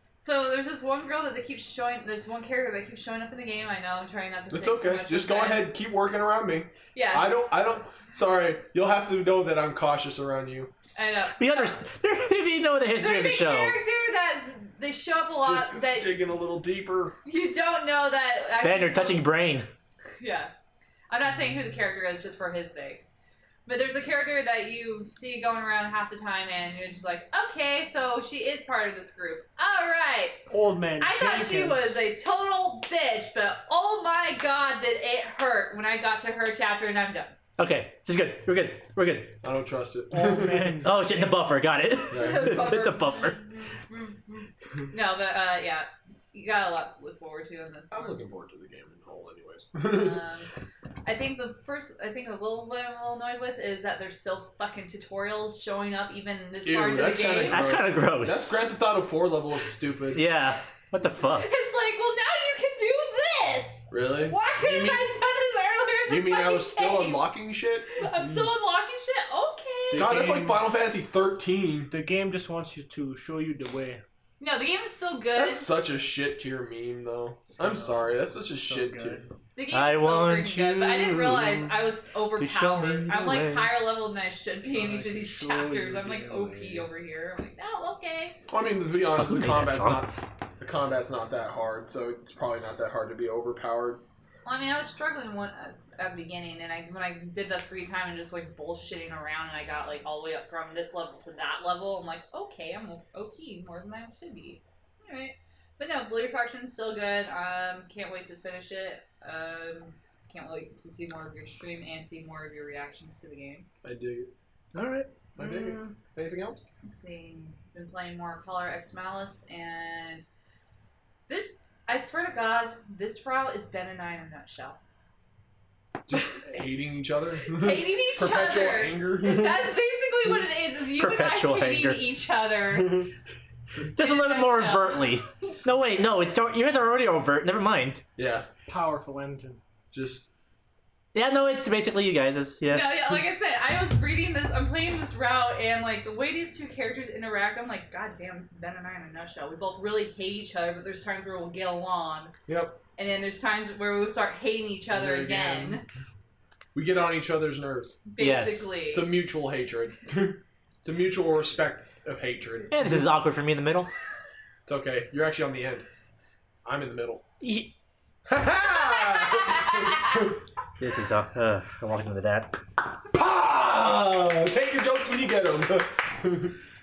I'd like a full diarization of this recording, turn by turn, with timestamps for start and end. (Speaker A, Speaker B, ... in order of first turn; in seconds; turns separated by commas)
Speaker A: 0.2-5.7, Speaker B: 4.5-10.7, Speaker A: 6.9-7.4, Speaker A: 10.9-11.8, Speaker C: 11.4-13.8, Speaker A: 13.0-16.1, Speaker B: 15.4-17.1, Speaker A: 17.2-19.2, Speaker C: 18.6-19.7, Speaker A: 20.2-20.5, Speaker A: 21.1-23.0, Speaker A: 23.6-30.4, Speaker D: 30.5-32.0, Speaker A: 31.0-37.3, Speaker C: 37.6-39.4, Speaker B: 39.4-40.8, Speaker D: 40.1-41.3, Speaker C: 40.8-43.4, Speaker B: 42.1-42.7, Speaker A: 42.1-48.2, Speaker B: 47.9-50.2, Speaker A: 49.8-50.5, Speaker A: 51.0-57.7, Speaker B: 56.6-60.2, Speaker C: 57.5-58.7, Speaker C: 60.1-61.5, Speaker A: 61.4-67.2, Speaker B: 63.9-65.1, Speaker B: 66.1-67.9, Speaker A: 67.9-70.1, Speaker D: 69.9-70.6, Speaker B: 69.9-71.9, Speaker D: 71.9-74.0, Speaker A: 74.4-75.7, Speaker B: 75.3-79.3, Speaker D: 77.6-79.3, Speaker A: 79.5-88.4, Speaker C: 79.7-81.6, Speaker B: 80.8-81.7, Speaker C: 82.4-83.7, Speaker D: 84.7-86.9, Speaker B: 88.5-94.0, Speaker C: 89.1-90.3, Speaker A: 94.5-113.7, Speaker B: 113.8-114.3, Speaker C: 114.7-115.1, Speaker A: 115.4-116.0, Speaker B: 115.4-116.6, Speaker A: 116.8-120.2, Speaker A: 121.3-124.8, Speaker B: 126.1-129.7, Speaker A: 127.5-133.1, Speaker C: 130.9-132.1, Speaker B: 132.7-133.1, Speaker C: 133.9-138.0, Speaker A: 133.9-135.6, Speaker B: 138.2-138.5, Speaker D: 138.7-139.6, Speaker B: 139.9-140.3, Speaker C: 141.1-143.2, Speaker A: 142.7-152.3, Speaker B: 152.5-152.8, Speaker A: 153.0-155.8, Speaker B: 154.9-155.8, Speaker B: 156.7-158.0, Speaker A: 158.1-159.1, Speaker C: 158.2-158.7, Speaker B: 158.9-163.0, Speaker C: 162.7-163.9, Speaker B: 164.7-165.9, Speaker B: 166.6-167.2, Speaker C: 167.4-167.7, Speaker B: 168.3-170.3, Speaker A: 168.6-170.2, Speaker C: 170.8-172.6, Speaker B: 173.1-176.5